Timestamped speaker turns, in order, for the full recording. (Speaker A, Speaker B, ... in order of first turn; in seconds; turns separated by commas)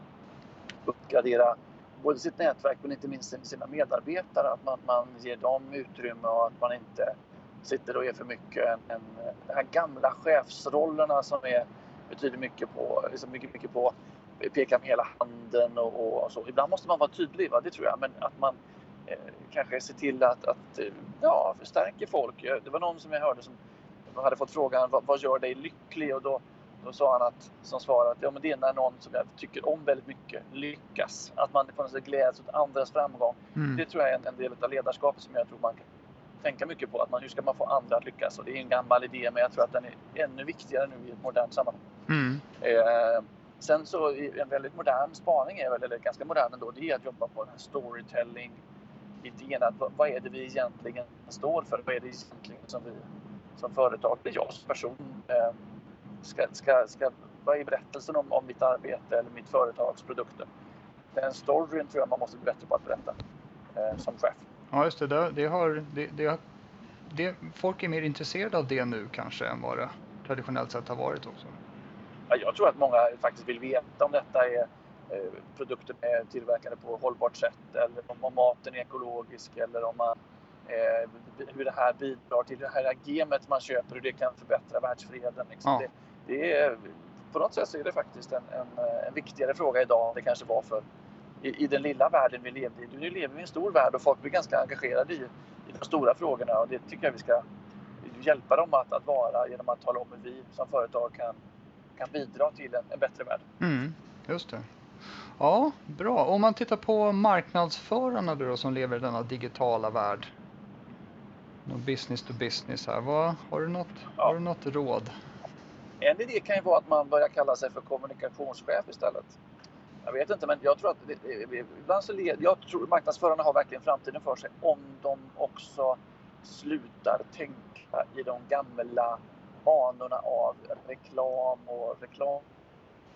Speaker A: 0.8-23.6, Speaker A: 24.1-35.8, Speaker B: 33.6-33.8, Speaker A: 36.4-41.8, Speaker B: 42.1-42.4, Speaker A: 42.6-48.6, Speaker A: 49.2-53.0, Speaker A: 53.6-55.5, Speaker A: 56.2-60.5, Speaker A: 61.1-63.1, Speaker A: 63.8-64.4, Speaker B: 64.7-66.4, Speaker B: 67.1-71.5, Speaker A: 72.3-80.2, Speaker A: 80.7-90.8, Speaker A: 91.4-97.4, Speaker A: 98.0-101.4, Speaker A: 102.0-103.4, Speaker B: 103.6-104.7, Speaker B: 105.4-110.3, Speaker B: 111.7-115.1, Speaker A: 116.0-119.3, Speaker A: 120.0-132.4